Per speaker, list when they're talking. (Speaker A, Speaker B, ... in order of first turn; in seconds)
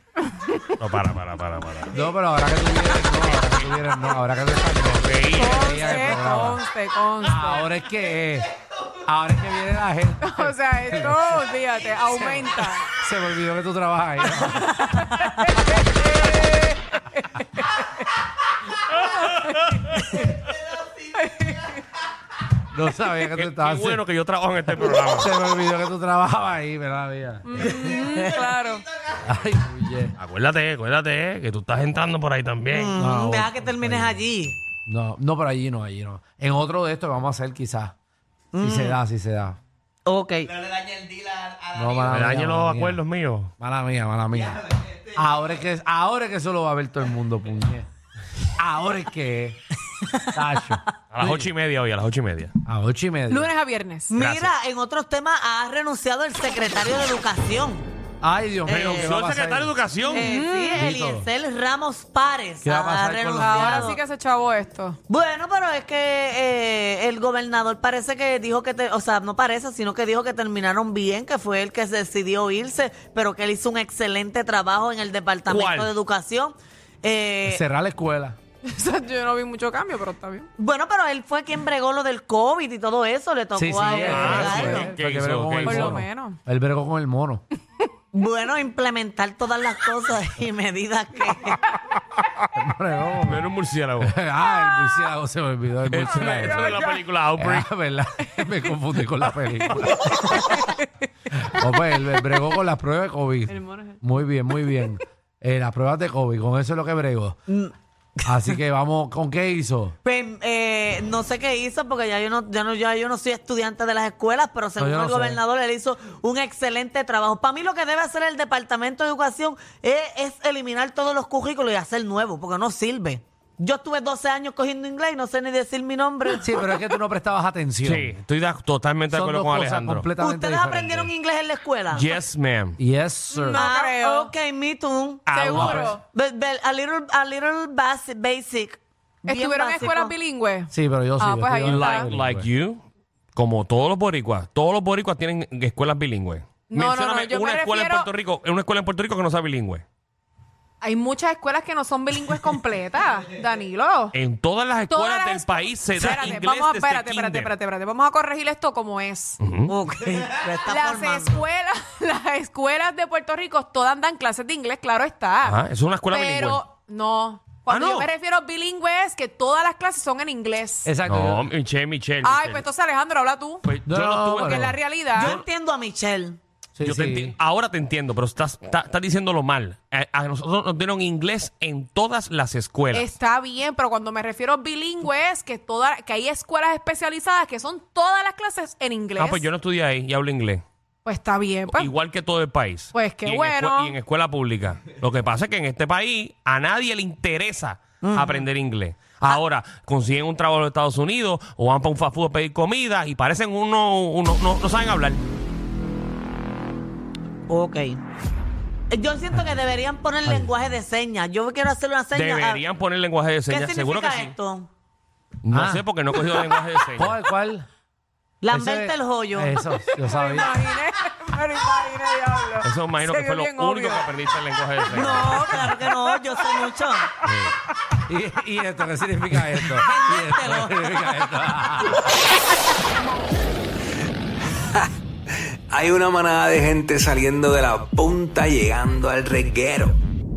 Speaker A: 0.8-2.0, 3.2-4.2, 4.8-6.1, 19.0-20.3, 23.4-25.3, 30.2-33.0, 42.1-43.5, 51.1-52.5, 54.2-54.5, 58.7-60.3, 75.5-75.9, 84.0-86.0, 93.2-94.1, 95.9-97.7, 99.7-100.1, 127.8-130.1, 131.9-132.8, 135.3-135.9, 141.7-142.8, 143.3-149.8, 154.1-157.5, 159.4-159.7, 165.4-166.6, 167.7-168.1, 171.1-172.6, 173.6-175.4, 176.8-183.1, 189.2-190.6, 191.7-205.2, 212.1-214.3, 215.4-217.2, 222.6-225.6
Speaker B: 1.9-6.6, 7.2-8.5, 9.0-11.5, 12.1-15.2, 22.7-24.0, 25.0-27.4, 29.2-30.1, 33.0-37.9, 38.6-39.6, 41.7-43.0, 43.6-47.9, 48.6-49.6, 50.3-51.5, 52.6-53.5, 58.2-59.8, 60.7-61.3, 62.6-64.0, 77.4-78.4, 83.5-87.4, 92.5-93.5, 94.0-96.7, 97.4-100.4, 101.3-107.4, 108.2-110.0, 114.8-115.4, 126.3-128.1, 129.1-131.1, 132.8-133.7, 135.5-135.8, 140.7-142.5, 170.8-171.5, 173.9-174.8, 176.8-177.4, 210.2-210.5, 215.5-215.9, 217.0-217.7, 218.5-220.5, 228.1-232.1
Speaker C: 5.3-7.7, 10.2-12.9, 14.5-16.8, 21.1-21.8, 27.5-28.9, 53.3-54.1, 60.0-60.9, 63.4-65.0, 78.6-80.5, 83.8-84.2, 85.6-86.4, 96.3-97.0, 103.5-104.0, 133.3-134.3, 135.3-136.0, 139.2-142.1, 146.7-148.1, 150.8-154.1, 154.9-159.4, 160.6-170.9, 172.2-173.6, 174.4-175.4, 182.9-189.5, 191.0-191.9, 192.9-194.0, 219.8-224.2, 224.9-226.7
Speaker D: 32.7-34.6, 38.5-39.0, 40.1-40.5, 54.1-57.9, 58.6-59.2, 60.1-64.0, 65.1-77.6, 80.6-84.9, 88.1-91.6, 107.5-108.5, 110.0-126.6, 130.2-132.2, 133.5-140.1, 159.7-161.4, 175.1-176.4, 198.0-198.5, 207.5-208.0, 208.9-212.6, 213.5-214.7, 218.4-219.5, 224.9-227.1, 229.6-231.5
Speaker E: 235.7-240.0